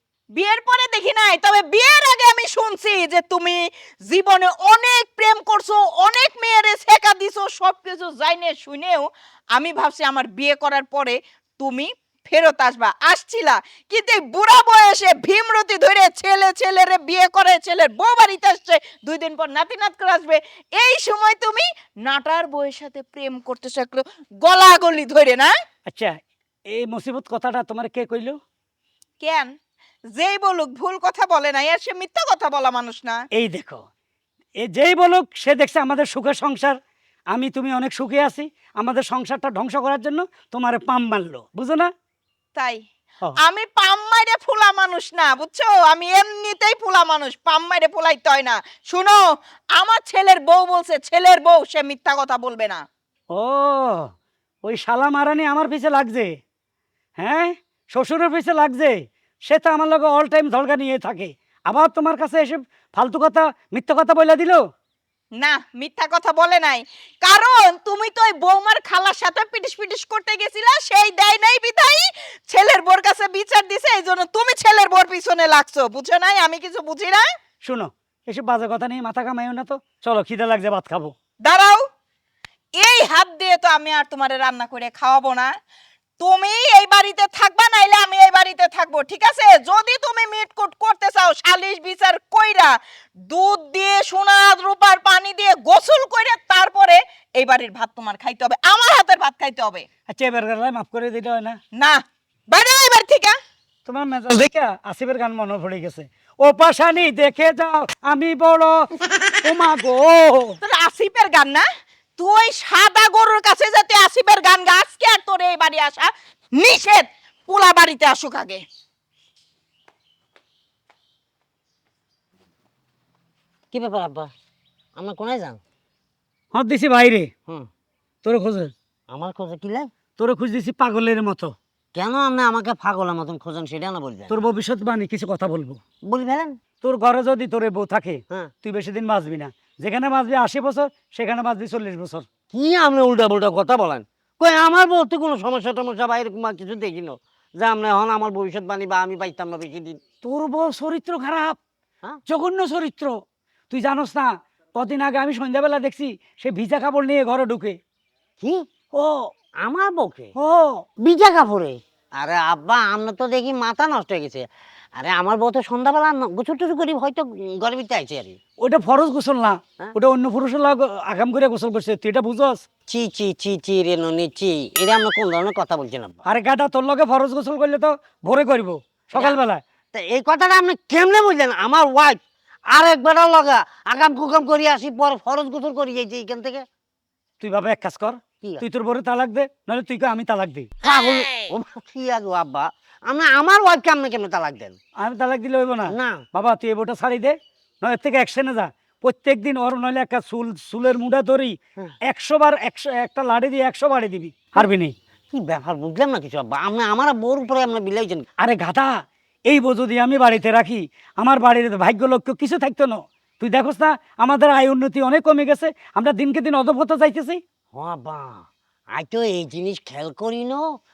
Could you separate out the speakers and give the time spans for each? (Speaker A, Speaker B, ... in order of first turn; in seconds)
Speaker A: 0.3-25.5, 29.2-29.5, 30.1-33.2, 42.5-42.8, 43.4-52.9, 65.4-77.3, 81.4-81.8, 82.8-85.6, 86.2-99.9, 101.7-103.4, 110.6-118.6
Speaker B: 25.9-26.1, 26.7-28.4, 33.3-33.8, 34.6-36.8, 37.3-41.9, 53.3-54.1, 54.6-56.3, 57.2-64.6, 77.6-81.1, 100.1-101.6, 103.8-108.9, 109.4-110.6, 126.5-127.3, 128.2-128.7, 130.2-131.5, 134.3-135.8, 136.8-142.3, 150.2-151.6, 152.3-153.1, 153.7-157.8, 160.4-160.8, 168.6-172.6, 176.2-179.6, 187.4-190.7, 195.0-204.9, 208.4-208.9, 209.5-217.4
Speaker C: 123.7-124.3, 125.0-125.6, 129.1-129.9, 131.9-134.3, 136.0-136.6, 142.5-150.0, 158.4-160.3, 161.0-168.4, 172.9-176.2, 179.9-186.7, 190.8-194.8, 195.9-196.2, 205.3-208.2, 217.7-220.7